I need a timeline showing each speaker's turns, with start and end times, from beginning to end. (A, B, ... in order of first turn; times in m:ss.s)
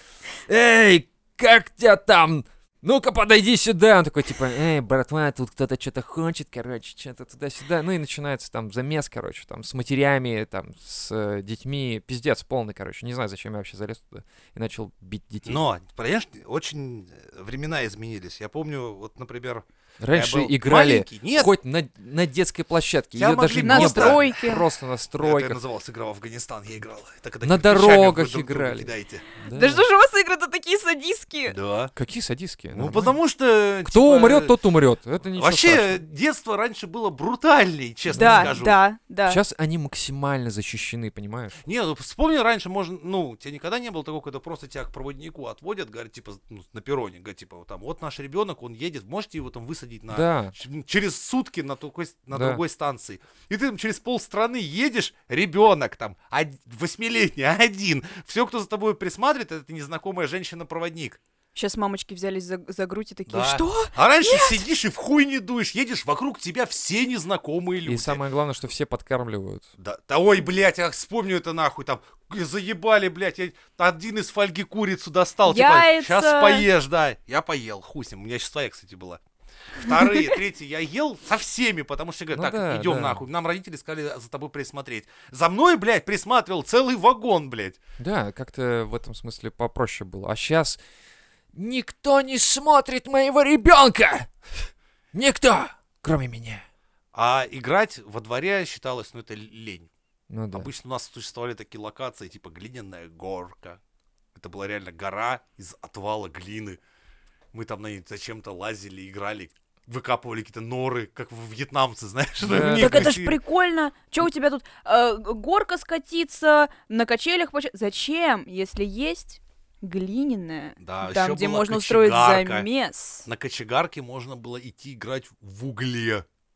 0:00.5-0:15.6 A
0:15.5-0:21.5 B
0:20.0-0:25.6 A
0:23.2-0:24.3 B
0:23.6-0:24.7 C
0:25.2-0:29.2 B
0:27.4-0:29.8 A
0:29.5-0:31.6 C
0:31.5-0:31.9 B
0:32.0-0:33.2 A
0:32.7-0:34.6 B
0:33.8-0:36.0 A
0:35.4-0:38.8 B
0:38.1-0:38.6 A
0:38.2-0:39.4 C
0:39.2-0:41.6 A
0:41.6-1:01.2 B
0:50.1-0:50.5 A
0:52.3-0:52.6 A
1:01.6-1:04.7 C
1:03.3-1:08.2 B
1:07.8-1:09.7 A
1:09.8-1:27.8 B
1:15.5-1:16.7 C
1:20.0-1:20.3 C
1:22.3-1:23.2 A
1:28.0-1:30.8 A
1:31.5-1:34.3 A
1:35.1-1:36.6 A
1:37.1-1:39.9 B
1:40.3-1:40.7 A
1:40.5-1:43.8 B
1:44.4-1:46.8 B
1:47.5-1:53.4 B
1:52.4-1:53.2 A
1:52.5-2:03.3 C
2:00.8-2:02.7 B
2:03.2-2:06.3 B